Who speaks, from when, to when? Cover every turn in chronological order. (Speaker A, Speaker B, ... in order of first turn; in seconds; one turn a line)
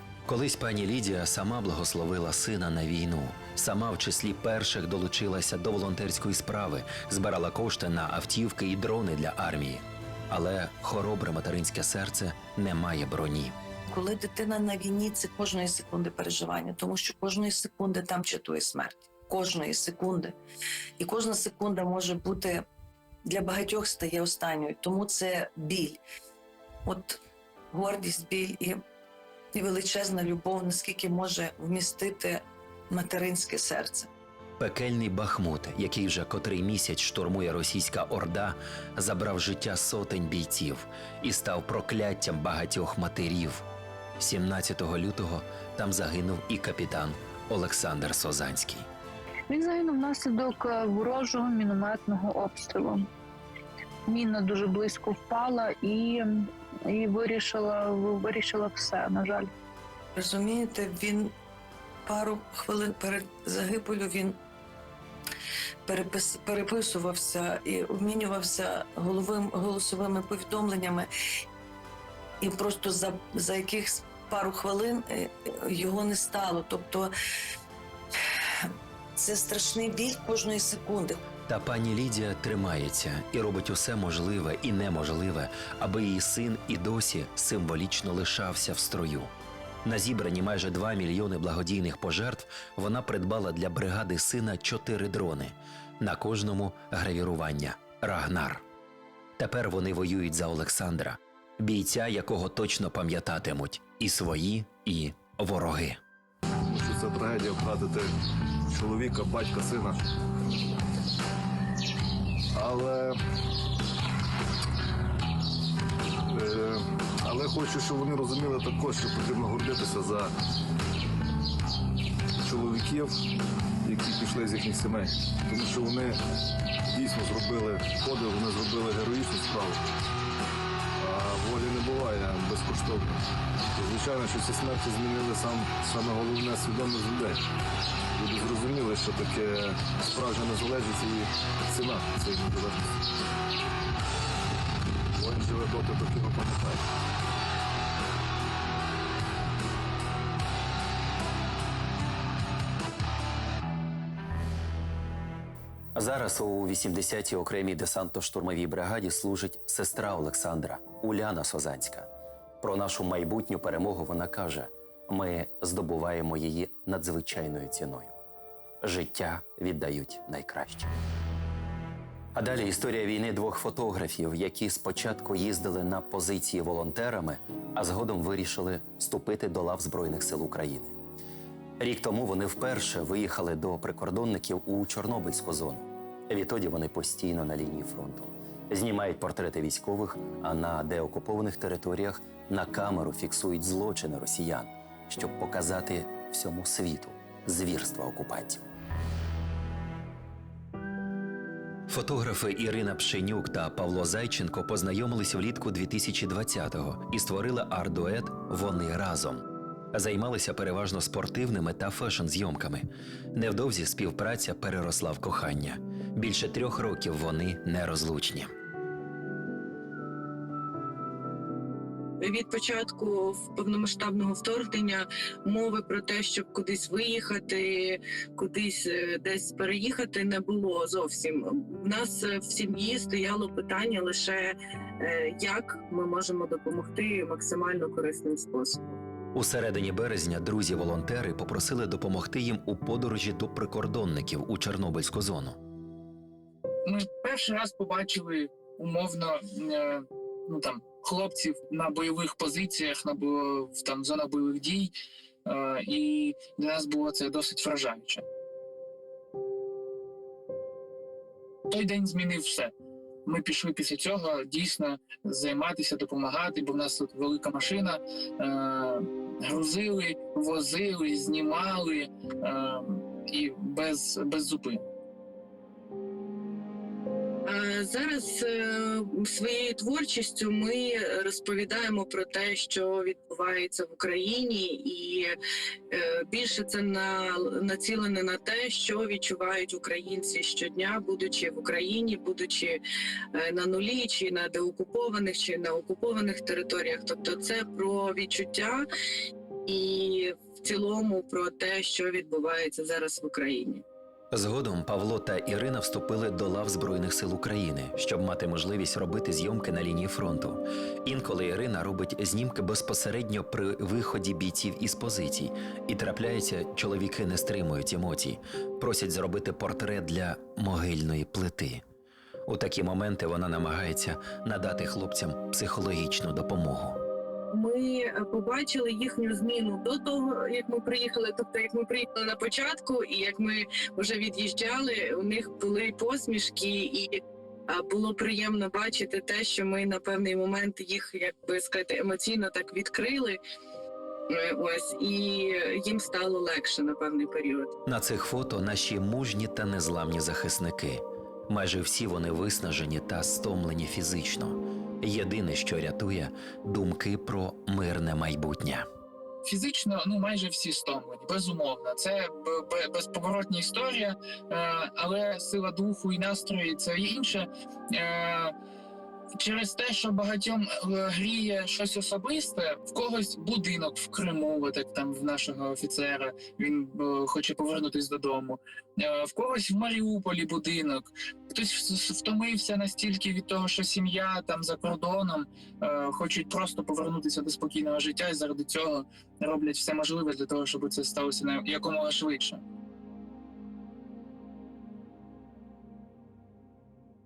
Speaker A: 0.3-13.6
Speaker B: 13.9-20.4
Speaker B: 21.0-22.6
Speaker B: 23.3-26.0
Speaker B: 26.9-27.2
Speaker B: 27.7-28.8
Speaker B: 29.6-34.1
Speaker A: 34.6-43.6
Speaker A: 44.2-48.9
Speaker C: 49.5-53.1
Speaker C: 54.1-59.5
Speaker B: 60.2-61.3
Speaker B: 62.1-64.4
Speaker B: 65.9-71.1
Speaker B: 72.4-77.1
Speaker B: 79.2-81.2
Speaker A: 81.5-89.3
Speaker A: 89.8-98.6
Speaker A: 99.4-106.0
Speaker D: 106.7-108.1
Speaker D: 108.7-110.0
Speaker D: 112.5-113.2
Speaker D: 116.3-120.3
Speaker D: 122.4-123.1
Speaker D: 123.8-126.2
Speaker D: 126.9-129.8
Speaker D: 131.0-133.2
Speaker D: 133.8-137.5
Speaker D: 138.2-143.0
Speaker D: 145.2-146.8
Speaker A: 155.9-162.1
Speaker A: 162.6-168.2
Speaker A: 168.8-170.9
Speaker A: 172.3-180.9
Speaker A: 181.8-198.7
Speaker A: 201.9-218.5
Speaker E: 222.2-239.0
Speaker A: 239.3-245.6
Speaker F: 246.8-254.9
Speaker F: 255.5-258.2
Speaker F: 261.7-262.7
Speaker F: 263.3-274.8
Speaker E: 277.5-285.4
Speaker E: 285.9-292.8
Speaker E: 293.3-298.9
Speaker E: 299.7-303.8
Speaker A: 304.3-321.8
Speaker A: 322.5-327.0
Speaker E: 327.5-343.4
Speaker E: 344.3-347.7
Speaker A: 347.9-358.9
Speaker F: 359.4-368.5
Speaker F: 369.4-392.6